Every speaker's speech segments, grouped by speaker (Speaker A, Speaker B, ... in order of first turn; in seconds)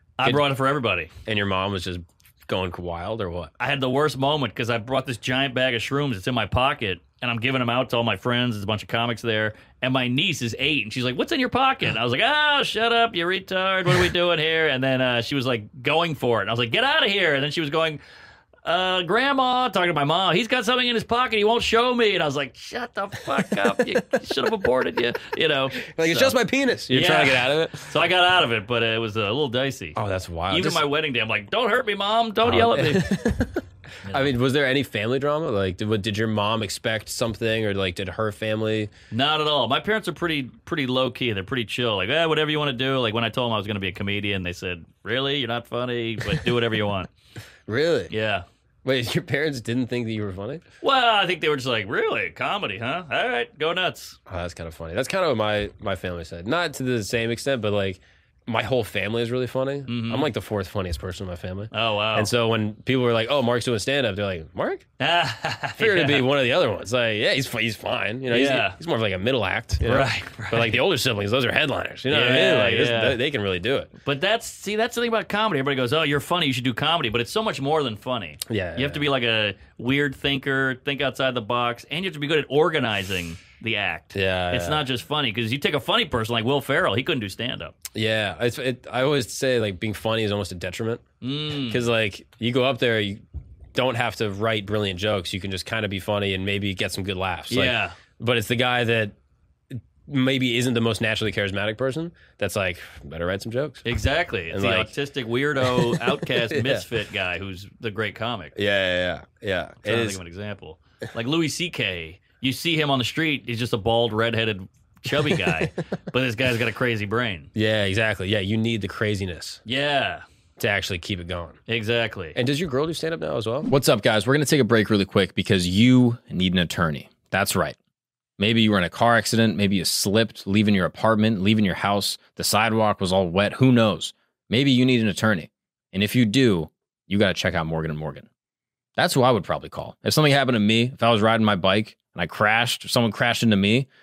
Speaker A: 0.2-1.1, 3.6-18.0, 18.6-26.4, 26.9-30.0, 30.5-33.1, 34.0-34.3, 39.1-47.1, 48.1-48.5, 50.8-54.2, 59.9-60.3, 61.7-62.3, 65.0-66.3, 68.3-68.8, 69.8-70.8, 72.1-73.2, 74.0-87.8, 91.2-91.9, 97.5-98.0, 103.8-108.5, 109.8-117.5, 119.7-120.2, 121.7-122.4
Speaker B: 1.2-3.5, 25.8-27.9, 30.0-30.8, 32.4-38.9, 47.7-48.1, 48.9-50.6, 54.3-64.8, 65.8-73.9, 78.5-79.0, 84.1-84.8, 88.0-91.0, 91.6-93.2, 93.8-99.2, 99.7-103.9, 104.5-104.9, 105.6-106.8, 108.5-110.2, 117.5-119.6, 120.6-121.6, 122.3-123.7
Speaker C: 123.7-127.8, 128.4-138.3, 139.0-143.9